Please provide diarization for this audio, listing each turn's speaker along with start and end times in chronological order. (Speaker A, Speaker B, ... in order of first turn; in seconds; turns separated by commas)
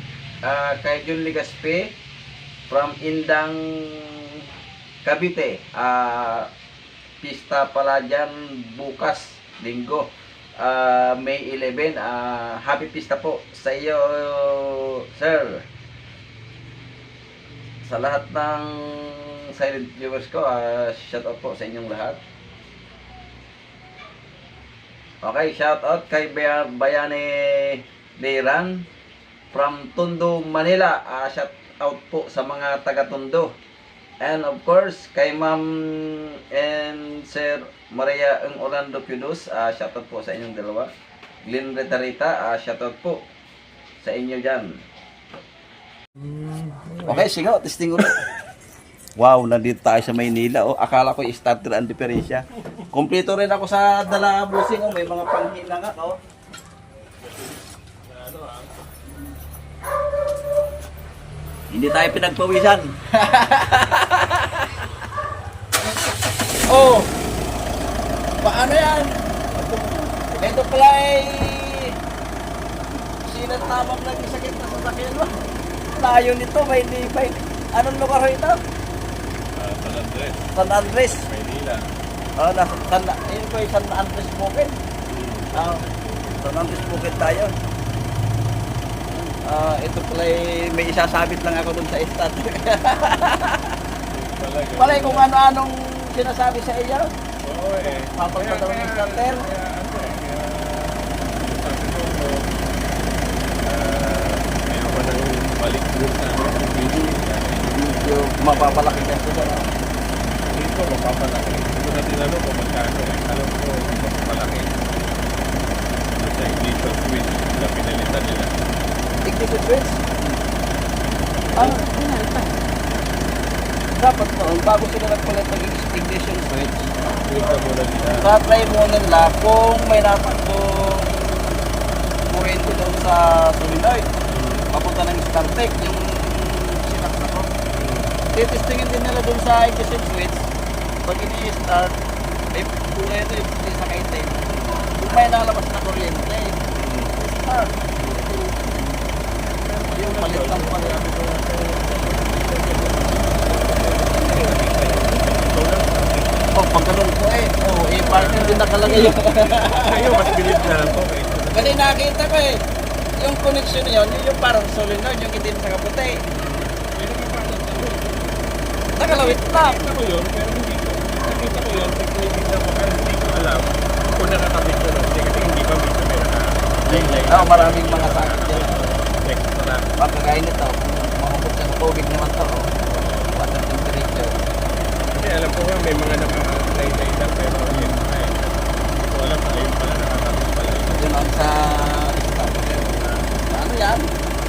Speaker A: 0.4-1.9, Speaker A: 2.7-4.5, Speaker A: 5.0-6.5, Speaker A: 7.2-15.6, Speaker A: 17.8-22.2, Speaker A: 25.2-28.9, Speaker A: 29.5-33.5, Speaker A: 34.2-40.9, Speaker A: 41.5-43.2, Speaker A: 44.0-44.7, Speaker B: 46.2-47.3, Speaker A: 47.0-48.2, Speaker A: 49.2-56.2, Speaker B: 57.2-58.8, Speaker A: 61.7-64.9, Speaker A: 66.7-67.1, Speaker A: 68.4-72.0, Speaker A: 73.2-78.6, Speaker B: 79.5-80.5, Speaker A: 80.5-81.2, Speaker B: 81.0-81.8, Speaker A: 82.4-84.8, Speaker B: 85.1-86.4, Speaker A: 85.5-85.8, Speaker A: 86.4-87.5, Speaker A: 89.2-93.8, Speaker B: 94.1-95.3, Speaker A: 94.8-97.1, Speaker B: 97.4-102.5, Speaker A: 97.9-99.4, Speaker B: 103.6-109.5, Speaker A: 107.7-109.7, Speaker B: 110.5-114.8, Speaker B: 116.1-118.5, Speaker A: 119.2-120.2, Speaker B: 121.3-121.8, Speaker C: 121.5-122.7, Speaker A: 123.9-126.9, Speaker B: 127.2-128.4, Speaker A: 128.1-131.6, Speaker A: 132.3-134.1, Speaker B: 134.3-134.7, Speaker A: 134.7-137.5, Speaker B: 137.7-138.2, Speaker A: 138.3-140.5, Speaker A: 141.0-141.9, Speaker A: 142.5-147.8, Speaker B: 144.5-144.8, Speaker B: 146.7-147.1, Speaker B: 147.9-148.5, Speaker A: 148.6-149.0, Speaker B: 149.6-156.5, Speaker A: 149.9-151.0, Speaker A: 156.5-160.7, Speaker B: 158.0-161.8, Speaker C: 158.0-159.1, Speaker A: 161.5-162.6, Speaker A: 163.2-166.2, Speaker B: 166.2-168.4, Speaker A: 169.0-169.8, Speaker B: 169.0-179.8, Speaker A: 176.9-178.9, Speaker A: 180.0-182.7, Speaker B: 182.8-183.3, Speaker A: 183.3-184.3, Speaker B: 185.1-191.1, Speaker A: 187.7-188.0, Speaker A: 190.9-194.1, Speaker B: 192.6-193.3